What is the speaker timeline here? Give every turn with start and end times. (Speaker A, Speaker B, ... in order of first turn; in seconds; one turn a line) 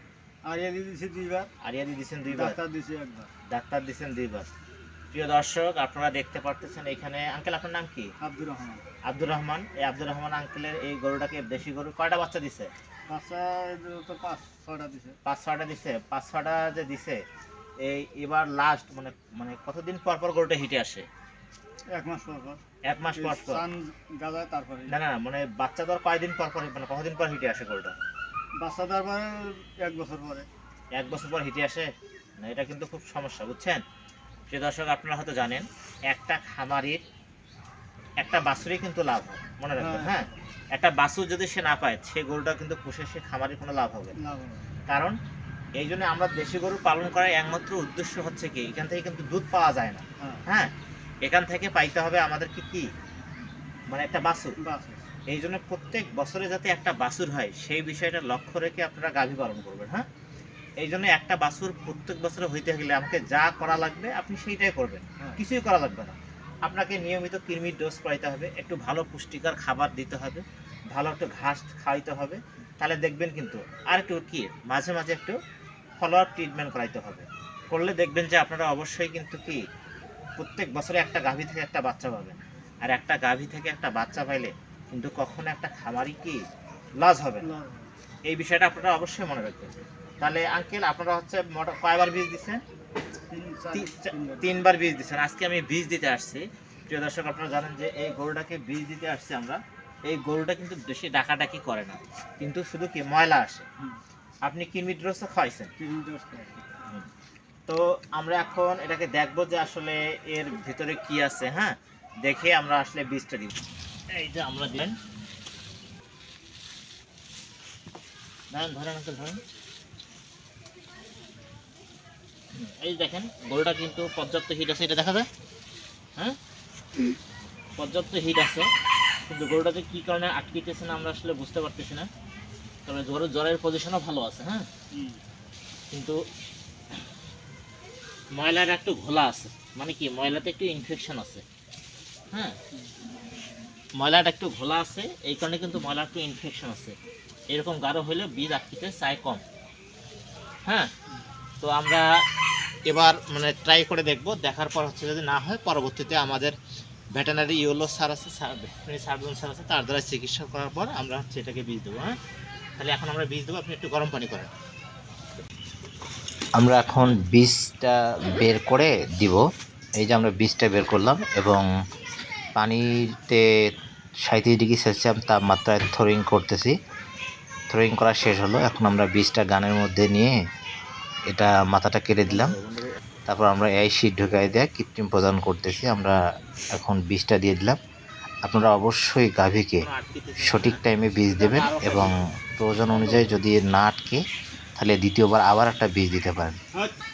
Speaker A: 0.5-1.5
Speaker B: 1.6-2.6
Speaker A: 2.3-3.3
Speaker B: 3.5-4.5
Speaker B: 5.1-8.1
Speaker A: 8.2-8.8
Speaker B: 9.1-12.7
Speaker A: 13.1-15.2
Speaker B: 15.2-17.2
Speaker B: 17.8-21.1
Speaker A: 21.9-22.6
Speaker B: 22.9-23.6
Speaker A: 23.2-25.0
Speaker B: 24.9-28.0
Speaker A: 28.6-30.5
Speaker B: 30.9-31.9
Speaker B: 32.4-33.8
Speaker B: 34.5-37.0
Speaker B: 38.2-44.1
Speaker A: 39.8-40.4
Speaker A: 44.2-44.7
Speaker B: 44.9-45.1
Speaker B: 45.8-52.9
Speaker B: 53.9-54.5
Speaker A: 54.6-55.1
Speaker B: 55.3-60.1
Speaker B: 60.8-75.4
Speaker B: 76.0-79.6
Speaker B: 80.4-86.4
Speaker B: 87.0-87.5
Speaker A: 87.4-87.9
Speaker B: 88.3-92.6
Speaker A: 93.3-94.6
Speaker B: 93.7-103.7
Speaker B: 104.5-105.7
Speaker A: 105.8-106.6
Speaker B: 107.7-113.5
Speaker B: 114.1-115.0
Speaker B: 118.5-119.4
Speaker B: 122.5-125.3
Speaker B: 127.8-128.7
Speaker B: 129.2-132.1
Speaker B: 132.9-134.7
Speaker A: 134.9-135.2
Speaker B: 135.9-136.2
Speaker B: 138.4-141.4
Speaker B: 144.0-146.9
Speaker B: 147.5-149.4
Speaker B: 151.6-152.1
Speaker B: 152.9-156.6
Speaker B: 157.2-162.1
Speaker B: 162.8-164.5
Speaker C: 166.6-169.4
Speaker C: 170.0-171.7
Speaker C: 172.6-173.4
Speaker C: 174.3-176.7
Speaker C: 177.7-180.3
Speaker C: 181.3-182.6
Speaker B: 182.3-182.8
Speaker C: 183.3-186.2
Speaker C: 186.8-187.8
Speaker C: 188.5-189.9
Speaker B: 189.8-192.2
Speaker C: 190.4-194.2
Speaker A: 192.9-193.3
Speaker C: 194.8-196.6